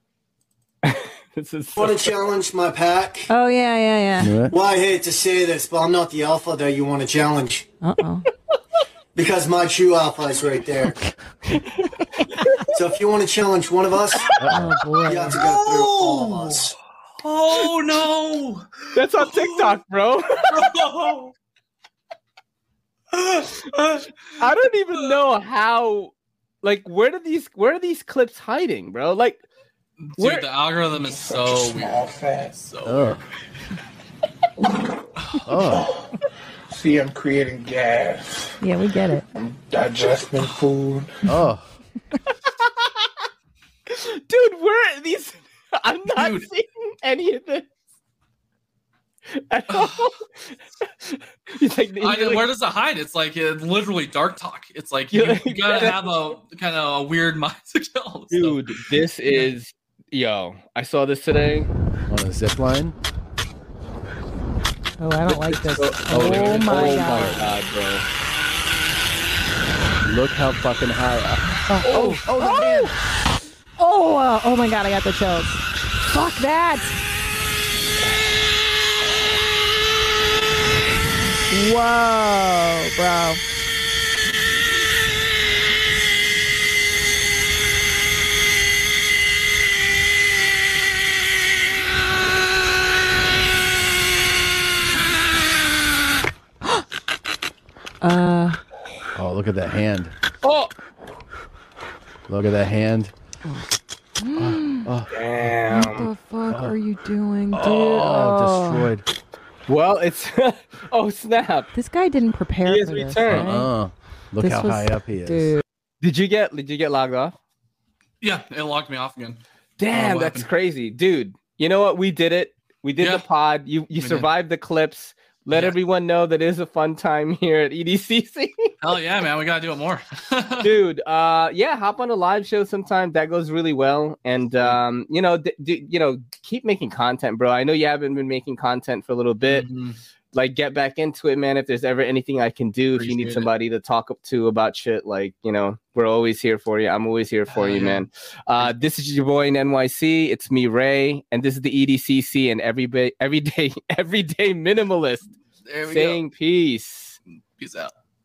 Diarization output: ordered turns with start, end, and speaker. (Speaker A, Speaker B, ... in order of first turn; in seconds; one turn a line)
Speaker A: 0.8-2.1
Speaker B: 1.8-3.3
Speaker C: 3.3-4.4
Speaker D: 4.2-4.5
Speaker B: 4.5-7.7
Speaker C: 7.8-8.3
Speaker B: 9.2-11.0
Speaker B: 12.7-14.4
Speaker D: 14.4-14.9
Speaker C: 14.5-15.4
Speaker B: 15.0-16.8
Speaker E: 15.4-19.8
Speaker A: 18.9-20.8
Speaker E: 20.4-21.3
Speaker E: 23.2-24.1
Speaker A: 24.4-29.4
Speaker E: 30.0-33.2
Speaker A: 30.2-30.4
Speaker F: 30.9-32.7
Speaker D: 32.9-33.2
Speaker D: 35.5-35.9
Speaker F: 35.7-36.1
Speaker F: 36.7-38.6
Speaker C: 38.6-39.2
Speaker F: 39.3-41.4
Speaker D: 41.2-41.7
Speaker A: 43.9-47.7
Speaker E: 46.1-46.5
Speaker A: 49.3-50.2
Speaker E: 49.7-50.1
Speaker A: 50.9-52.5
Speaker E: 52.0-59.5
Speaker A: 55.1-56.1
Speaker A: 58.3-61.7
Speaker D: 62.1-63.0
Speaker C: 65.0-67.5
Speaker A: 65.3-68.0
Speaker D: 66.1-67.4
Speaker D: 70.0-72.5
Speaker A: 71.9-72.3
Speaker C: 71.9-72.9
Speaker C: 73.8-77.0
Speaker C: 81.5-83.4
Speaker C: 98.0-98.6
Speaker D: 99.2-100.1
Speaker A: 100.4-100.7
Speaker D: 102.3-103.1
Speaker C: 104.2-104.9
Speaker D: 104.4-105.1
Speaker A: 105.1-106.1
Speaker C: 105.7-108.9
Speaker D: 106.5-106.8
Speaker D: 107.5-109.0
Speaker A: 109.7-111.7
Speaker C: 111.7-113.7
Speaker A: 112.7-113.5
Speaker D: 113.3-115.5
Speaker C: 114.4-115.6
Speaker A: 116.0-117.4
Speaker E: 118.2-120.5
Speaker A: 119.8-128.7
Speaker E: 124.0-124.3
Speaker E: 125.5-125.8
Speaker E: 128.8-130.8
Speaker A: 130.6-139.7
Speaker E: 134.5-134.8
Speaker E: 139.4-140.0
Speaker A: 140.3-155.3
Speaker E: 143.0-143.5
Speaker E: 147.5-148.1
Speaker E: 155.7-156.2
Speaker A: 155.9-157.2
Speaker E: 157.6-157.9